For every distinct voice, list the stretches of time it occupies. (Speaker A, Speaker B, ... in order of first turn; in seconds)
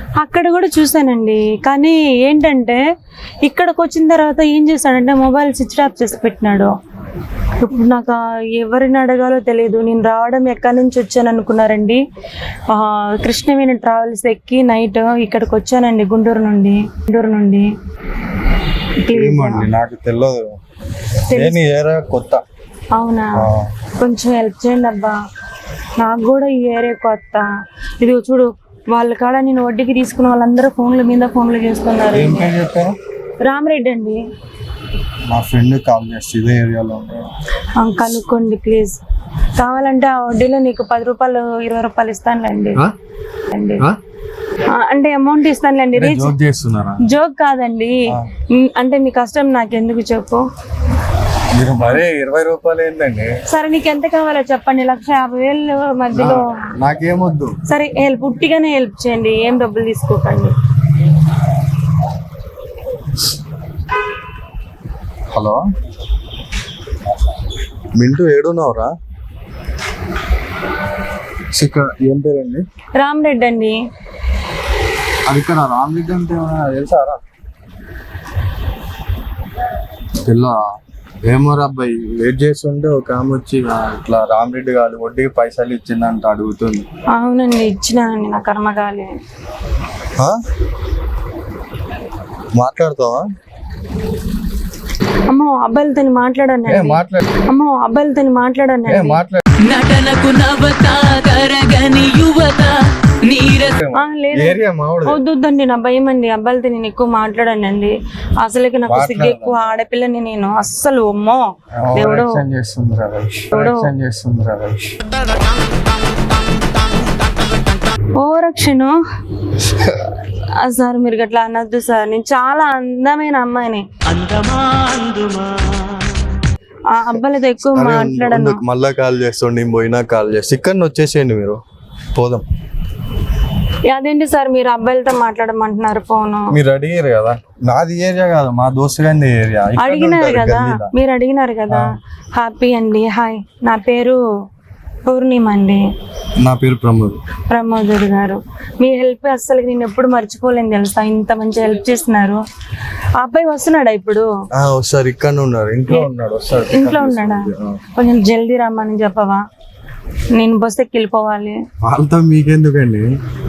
Speaker A: 0.2-2.8, 3.4-6.7, 7.6-12.0, 12.7-17.7, 19.0-19.7, 21.3-21.6, 22.9-23.4, 24.0-25.2, 26.0-27.5, 28.0-32.5, 33.4-34.2, 37.8-39.0, 39.6-42.8, 43.5-43.8, 44.7-46.3, 47.0-50.4, 53.5-56.6, 57.7-60.5, 73.0-73.8, 87.1-89.1, 95.3-99.2, 103.9-112.4, 113.5-113.9, 118.2-119.0, 120.3-123.8, 126.9-128.6, 133.9-136.6, 139.8-144.2, 145.1-145.8, 147.5-152.4, 153.2-154.3, 156.7-159.4, 160.3-161.6
Speaker B: 19.1-20.6, 21.3-22.4, 23.4-23.7, 32.1-33.0, 35.3-37.3, 46.0-47.0, 51.5-53.3, 56.1-57.6, 65.3-65.6, 68.0-68.9, 71.5-72.7, 75.3-77.2, 80.2-80.7, 81.2-86.9, 92.5-93.3, 96.7-97.4, 98.9-99.4, 103.5-105.2, 108.9-109.6, 111.8-115.0, 119.7-120.0, 127.7-131.6, 132.1-132.5, 136.5-140.9, 146.4-147.2, 154.5-157.8, 161.8-163.1
Speaker C: 99.6-103.7, 124.2-125.8